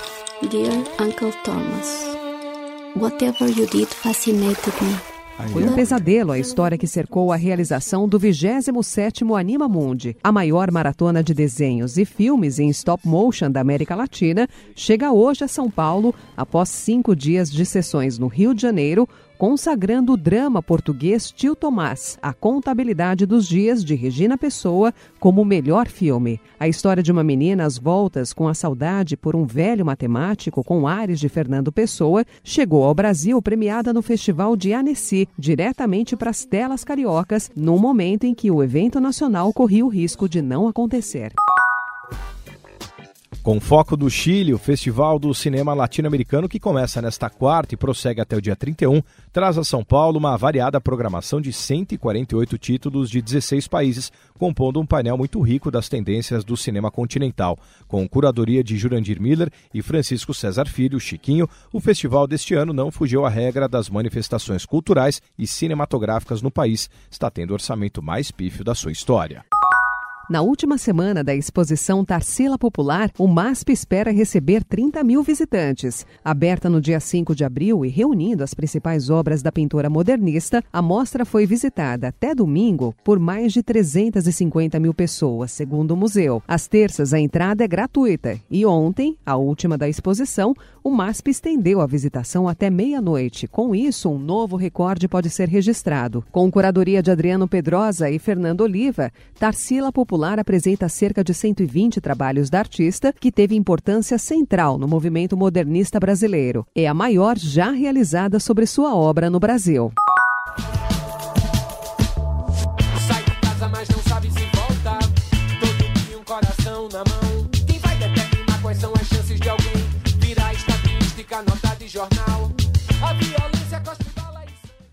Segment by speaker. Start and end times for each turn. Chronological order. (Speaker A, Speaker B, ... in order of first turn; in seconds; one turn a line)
Speaker A: 0.4-2.1
Speaker A: 3.0-5.0
Speaker B: 5.4-5.7
Speaker C: 5.5-41.4
Speaker B: 43.4-69.4
Speaker C: 70.3-109.9
Speaker D: 112.9-124.6